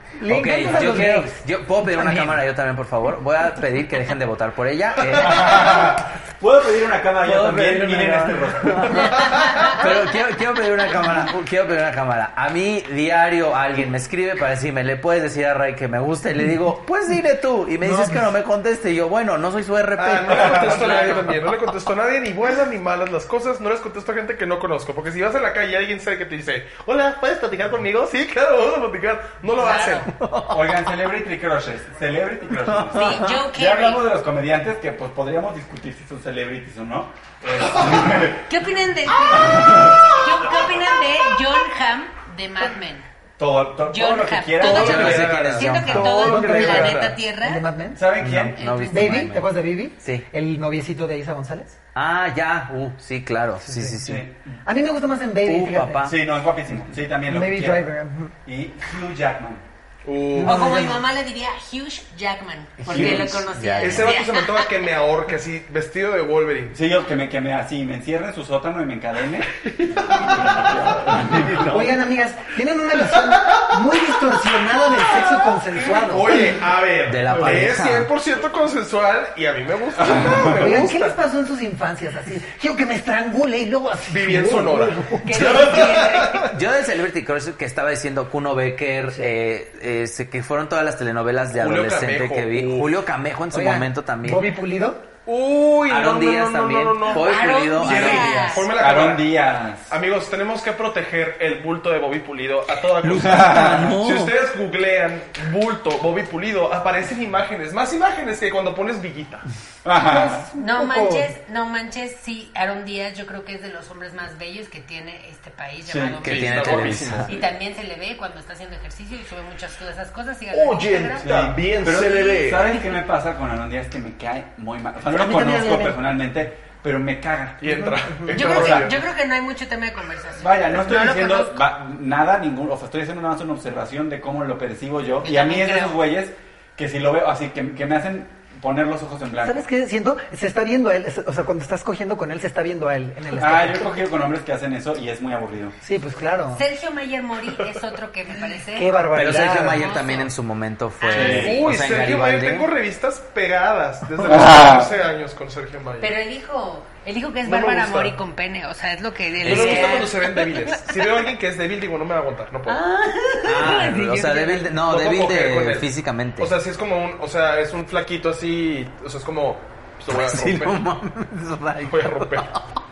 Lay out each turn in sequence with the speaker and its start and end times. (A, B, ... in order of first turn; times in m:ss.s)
0:00.2-0:02.4 A
0:00.3-0:05.9 B
0:05.1-0:05.9 C
0:05.2-0:09.2 D
0:07.2-0:21.1 B
0:08.9-0:09.7 C
0:17.8-0:18.2 A
0:20.0-0:30.1 C
0:20.3-0:20.8 D
0:20.5-0:21.4 E
0:29.6-0:30.1 E
0:30.1-0:30.6 B
0:30.5-0:38.5 D
0:32.7-0:33.4 B
0:32.9-0:34.0 E
0:38.4-0:43.1 E
0:39.3-0:40.2 D
0:43.4-0:45.3 D
0:43.9-0:47.6 E
0:44.6-0:47.2 C
0:44.6-0:46.3 B
0:45.9-0:48.1 A
0:47.9-0:48.6 D
0:48.2-0:49.5 B
0:48.6-0:49.3 E
0:48.9-0:51.7 A
0:50.0-0:50.2 B
0:51.9-0:54.3 B
0:53.6-0:54.0 A
0:54.0-0:54.6 D
0:54.6-0:56.1 A
0:55.4-0:56.2 B
0:56.0-0:57.9 D
0:57.2-0:58.3 A
0:58.4-0:59.6 D
1:00.0-1:00.9 C
1:00.3-1:01.0 A
1:00.4-1:04.7 E
1:02.8-1:04.2 B
1:02.9-1:03.4 D
1:03.8-1:06.8 C
1:06.7-1:11.7 D
1:09.6-1:11.7 C
1:11.1-1:12.0 B
1:11.7-1:16.6 A
1:13.0-1:14.4 C
1:15.0-1:21.2 C
1:17.0-1:18.1 B
1:20.0-1:20.5 D
1:20.3-1:25.7 A
1:24.1-1:26.5 C
1:25.2-1:26.5 E
1:25.3-1:34.5 B
1:31.5-1:33.0 C
1:33.5-1:35.0 A
1:35.2-1:49.4 C
1:35.9-1:38.6 B
1:37.1-1:38.7 E
1:37.8-1:39.9 D
1:43.0-1:44.3 B
1:43.2-1:43.9 D
1:49.8-1:50.4 D
1:49.9-1:51.3 A
1:50.6-2:01.3 E
1:55.8-1:56.2 D
1:56.2-1:57.4 B
1:56.2-1:57.4 C
2:00.5-2:02.7 C
2:01.2-2:08.9 D
2:05.1-2:06.1 A
2:07.6-2:09.0 C
2:08.3-2:11.6 E
2:10.4-2:19.6 D
2:15.2-2:16.0 E
2:19.4-2:24.0 A
2:23.4-2:25.8 D
2:25.8-2:26.6 A
2:26.5-2:30.3 E
2:28.7-2:29.9 A
2:29.1-2:32.7 B
2:31.0-2:31.7 E
2:31.1-2:31.6 D
2:31.1-2:36.1 C
2:34.2-2:34.9 D
2:36.0-2:41.3 E
2:37.4-2:38.2 C
2:39.4-2:40.0 B
2:39.4-2:42.8 C
2:42.7-2:44.7 E
2:43.4-2:46.5 B
2:44.8-2:50.8 C
2:50.1-2:52.6 B
2:51.8-2:52.5 C